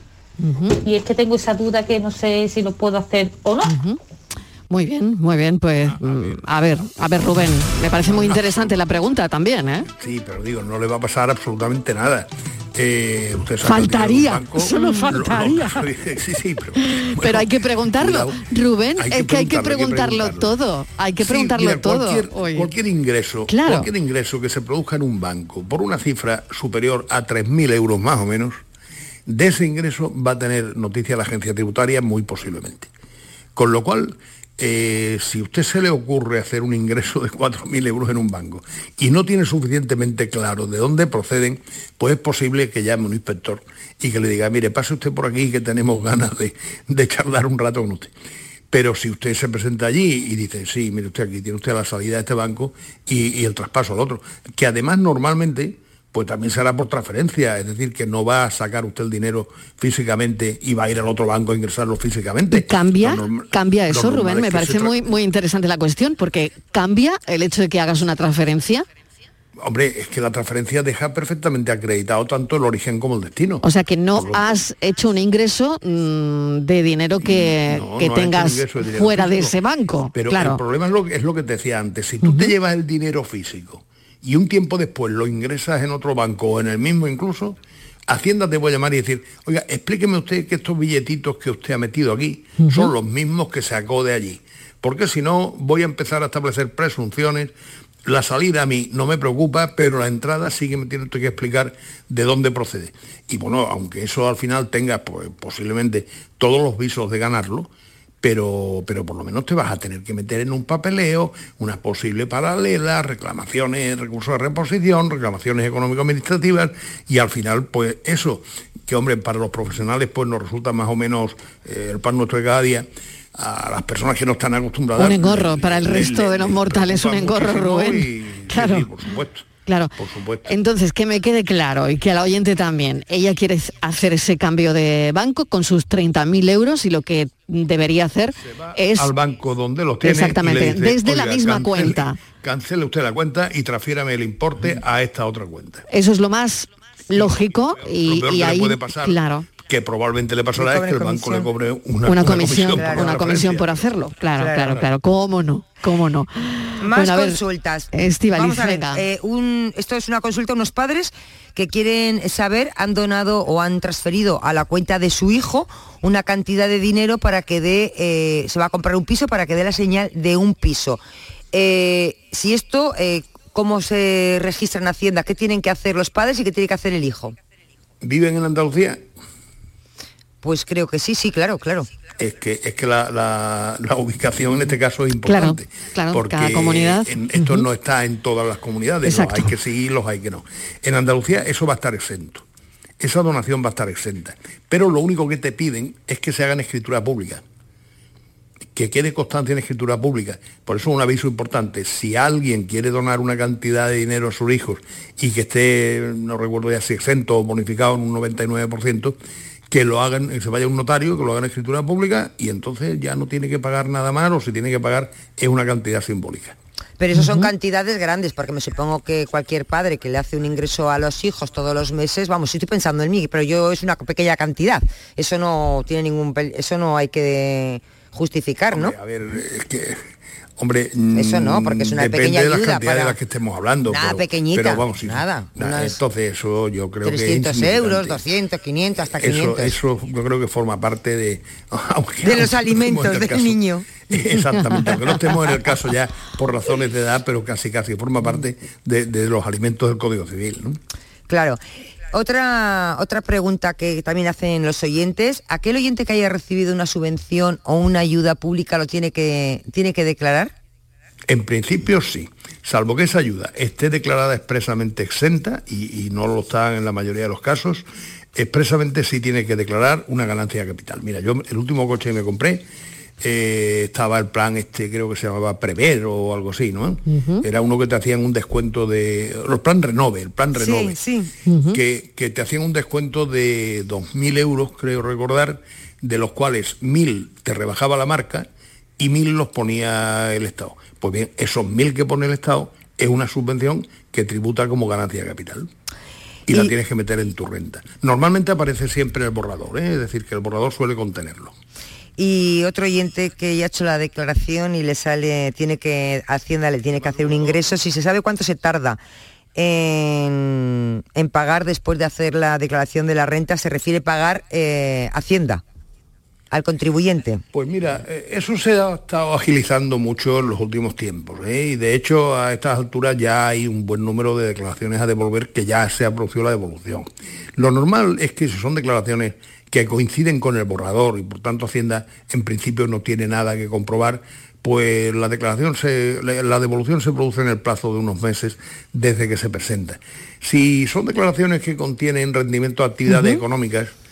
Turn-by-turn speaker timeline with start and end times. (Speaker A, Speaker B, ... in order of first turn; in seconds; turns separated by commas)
Speaker A: 0.4-0.8, Speaker B: 0.8-3.7, Speaker A: 3.6-4.0, Speaker A: 4.7-9.9, Speaker C: 8.1-8.8, Speaker C: 9.9-18.4, Speaker A: 13.6-15.8, Speaker A: 16.8-22.7, Speaker C: 19.0-20.5, Speaker C: 21.2-28.6, Speaker A: 23.5-23.9, Speaker C: 29.2-32.9, Speaker C: 33.5-48.1, Speaker C: 48.7-65.1, Speaker A: 62.5-68.8, Speaker C: 69.6-74.5, Speaker A: 73.6-80.6, Speaker C: 77.2-79.6, Speaker C: 80.1-97.5, Speaker A: 82.2-82.5, Speaker C: 98.0-107.7, Speaker C: 108.2-130.6, Speaker A: 125.0-128.9, Speaker A: 129.6-139.1, Speaker C: 138.4-145.8, Speaker A: 140.0-142.2, Speaker A: 145.9-149.4, Speaker C: 147.1-153.9, Speaker D: 150.6-151.5, Speaker A: 152.0-157.4, Speaker D: 152.4-153.3, Speaker D: 154.4-154.8, Speaker C: 154.5-154.8, Speaker D: 156.8-171.0, Speaker A: 157.9-159.0, Speaker D: 171.5-177.3, Speaker C: 178.0-179.0, Speaker D: 180.4-181.9, Speaker C: 182.2-192.4, Speaker A: 185.2-187.7, Speaker A: 189.0-189.5, Speaker C: 193.0-197.4, Speaker C: 198.7-209.2, Speaker C: 209.7-216.6, Speaker D: 217.0-228.9, Speaker A: 217.1-217.5, Speaker C: 228.7-230.0, Speaker C: 230.6-238.2, Speaker D: 231.1-233.2, Speaker D: 233.9-236.0, Speaker D: 237.0-239.8, Speaker C: 239.1-250.8, Speaker D: 242.2-243.9, Speaker A: 244.5-245.0, Speaker D: 251.3-251.6, Speaker D: 252.1-260.5, Speaker C: 261.3-272.6, Speaker C: 273.2-281.0, Speaker A: 277.1-277.4, Speaker D: 280.5-281.3, Speaker A: 281.4-281.8, Speaker C: 281.7-288.5, Speaker C: 289.0-295.7, Speaker C: 296.5-301.5, Speaker D: 302.2-309.0, Speaker D: 309.5-315.6, Speaker D: 316.5-317.4, Speaker C: 317.5-343.9, Speaker A: 343.1-343.4